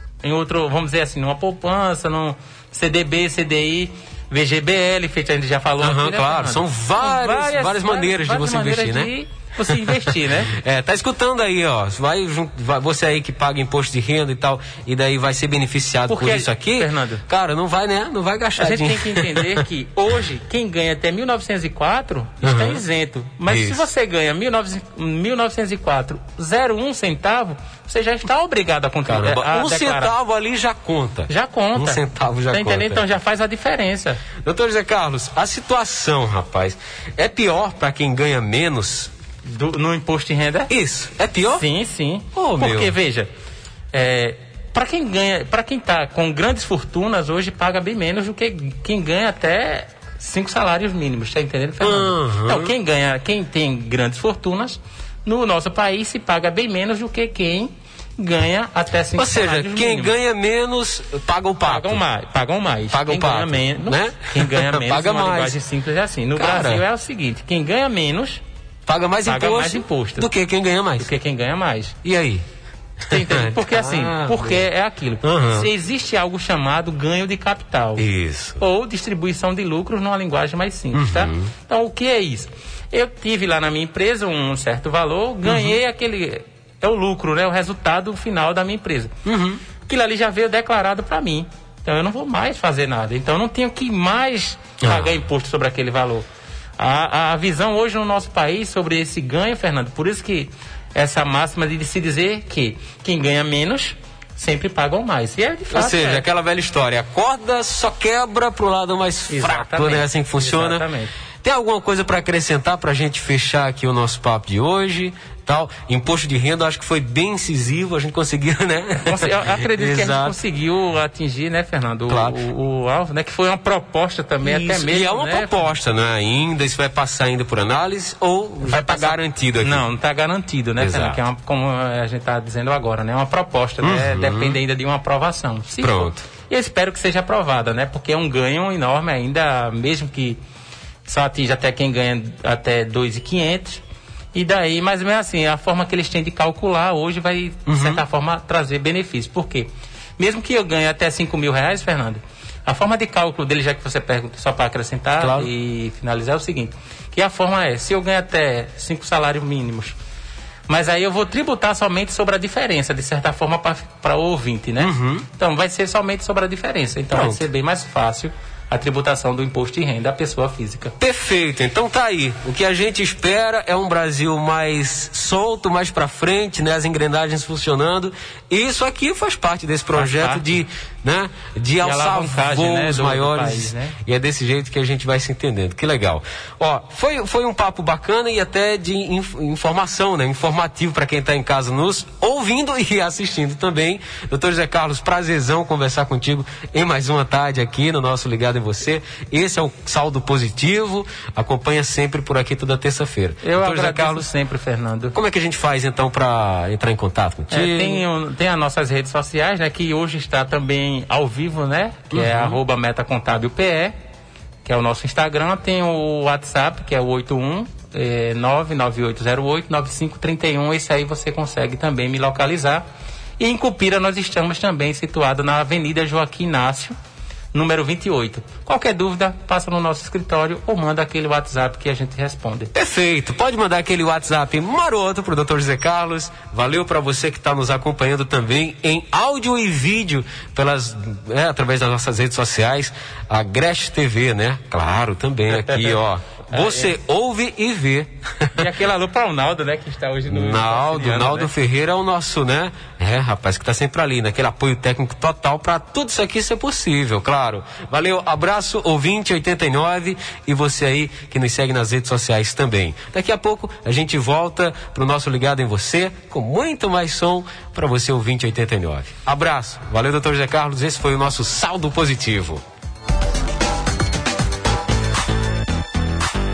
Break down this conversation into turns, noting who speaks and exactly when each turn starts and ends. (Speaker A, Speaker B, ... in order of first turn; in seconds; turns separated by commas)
Speaker A: 0.2-10.5, Speaker B: 5.8-9.1, Speaker B: 9.7-19.6, Speaker A: 16.1-17.2, Speaker A: 18.6-30.1, Speaker B: 22.4-22.8, Speaker B: 23.5-23.8, Speaker B: 29.1-33.0, Speaker A: 31.3-34.2, Speaker B: 34.4-39.1, Speaker A: 39.4-40.7, Speaker B: 40.7-41.6, Speaker A: 41.5-43.3, Speaker B: 42.3-42.9, Speaker A: 43.9-60.2, Speaker B: 51.8-52.7, Speaker B: 59.2-62.0, Speaker A: 61.6-68.4, Speaker B: 62.9-65.5, Speaker B: 66.3-66.8, Speaker B: 68.9-71.1, Speaker A: 69.3-70.3, Speaker A: 71.0-72.0, Speaker B: 72.0-72.4, Speaker B: 73.0-74.6, Speaker A: 73.1-78.0, Speaker B: 75.2-75.7, Speaker B: 78.0-78.6, Speaker A: 78.6-89.1, Speaker B: 80.9-81.5, Speaker B: 85.4-85.8, Speaker B: 89.2-89.6, Speaker A: 89.8-96.2, Speaker B: 94.8-95.1, Speaker A: 96.8-106.2, Speaker B: 105.7-110.8, Speaker A: 109.3-111.1, Speaker B: 111.4-120.3, Speaker A: 119.0-125.7, Speaker B: 122.1-122.3, Speaker B: 124.4-129.8, Speaker A: 128.6-140.4, Speaker B: 130.8-131.2, Speaker B: 133.8-134.6, Speaker B: 135.8-136.2, Speaker A: 141.1-143.8, Speaker A: 144.3-159.9, Speaker B: 147.7-148.0, Speaker B: 155.2-155.5, Speaker A: 160.7-170.9, Speaker B: 164.8-165.2, Speaker B: 167.1-167.4, Speaker B: 171.0-204.3, Speaker A: 179.9-180.5, Speaker A: 181.8-184.0, Speaker A: 203.4-205.1, Speaker B: 205.1-208.0, Speaker A: 207.5-213.9, Speaker B: 212.1-212.6, Speaker A: 214.6-222.8, Speaker A: 223.4-226.9, Speaker A: 227.5-232.7, Speaker B: 232.7-248.5, Speaker A: 245.5-246.9, Speaker A: 248.5-251.5, Speaker B: 250.3-272.6